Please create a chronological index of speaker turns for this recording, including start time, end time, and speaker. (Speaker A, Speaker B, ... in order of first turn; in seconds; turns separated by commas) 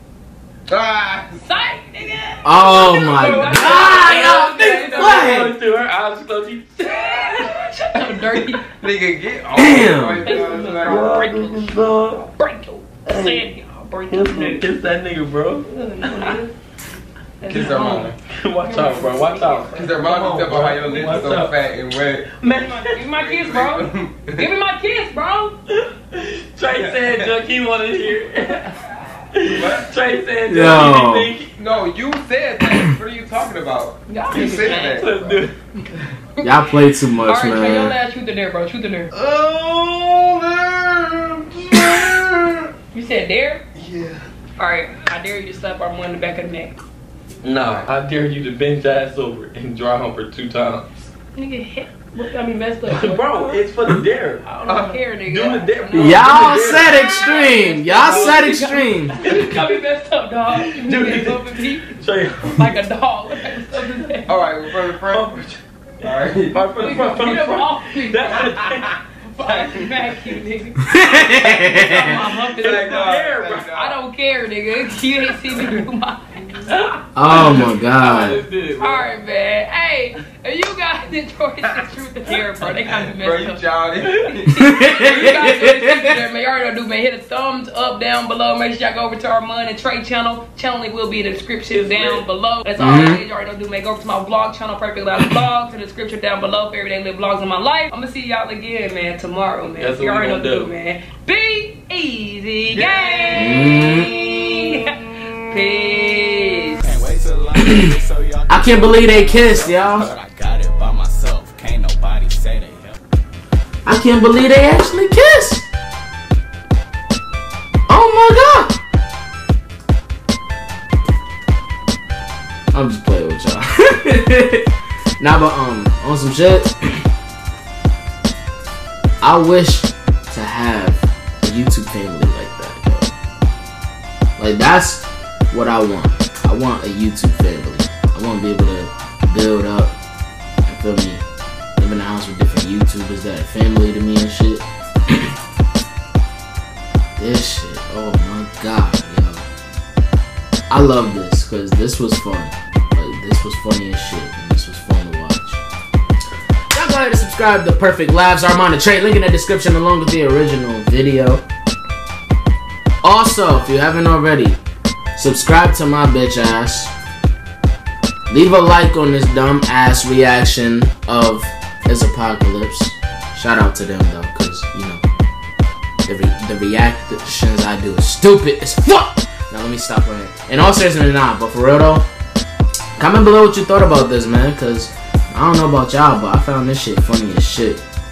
Speaker A: 0.7-1.4, Speaker B: 1.4-5.4, Speaker C: 2.4-5.5, Speaker D: 2.8-7.5, Speaker B: 6.8-8.7, Speaker A: 8.4-11.2, Speaker C: 9.5-10.4, Speaker B: 10.2-14.7, Speaker D: 10.5-12.2, Speaker D: 13.1-13.5, Speaker D: 14.1-16.4, Speaker B: 15.6-16.5, Speaker B: 17.4-20.1, Speaker A: 17.5-18.2, Speaker D: 18.2-21.6, Speaker A: 19.7-22.3, Speaker D: 22.4-23.0, Speaker B: 22.4-25.6, Speaker A: 23.1-24.5, Speaker D: 25.8-28.7, Speaker A: 26.7-27.4, Speaker B: 28.3-28.8, Speaker D: 29.3-31.6, Speaker A: 29.4-29.9, Speaker C: 30.5-31.3, Speaker A: 31.6-35.5, Speaker B: 34.1-35.1, Speaker D: 34.4-35.5, Speaker B: 35.7-36.6, Speaker C: 36.4-38.0, Speaker B: 37.2-39.1, Speaker A: 39.1-42.7, Speaker B: 42.9-43.6, Speaker A: 43.8-44.3, Speaker B: 44.6-46.8, Speaker D: 47.4-51.1, Speaker A: 47.6-47.9, Speaker B: 51.4-64.3, Speaker D: 52.9-54.5, Speaker A: 54.7-55.0, Speaker D: 55.2-57.4, Speaker C: 55.9-59.2, Speaker D: 58.0-59.7, Speaker D: 60.5-62.8, Speaker A: 64.3-65.4, Speaker D: 64.7-70.2, Speaker A: 66.0-66.6, Speaker B: 66.8-68.6, Speaker A: 68.3-68.8, Speaker B: 69.2-76.7, Speaker C: 70.9-72.1, Speaker D: 72.2-73.7, Speaker A: 72.5-74.0, Speaker A: 75.5-75.8, Speaker D: 76.7-79.1, Speaker C: 77.2-78.4, Speaker B: 78.8-106.8, Speaker A: 82.9-84.6, Speaker C: 84.8-86.1, Speaker D: 91.7-92.2, Speaker C: 92.8-93.2, Speaker D: 99.8-100.7, Speaker A: 102.8-103.5, Speaker C: 103.3-104.1, Speaker E: 106.9-113.0, Speaker C: 108.5-110.1, Speaker C: 113.8-115.6, Speaker C: 117.9-118.8, Speaker C: 122.7-124.7, Speaker C: 125.2-127.0, Speaker C: 129.2-133.1, Speaker C: 134.4-139.9, Speaker C: 140.7-141.2, Speaker C: 141.8-145.3, Speaker C: 147.2-149.4, Speaker C: 150.7-155.6, Speaker C: 156.7-161.4, Speaker C: 163.0-164.6, Speaker C: 165.2-166.9, Speaker C: 168.3-175.0, Speaker C: 176.1-182.1, Speaker C: 183.0-187.8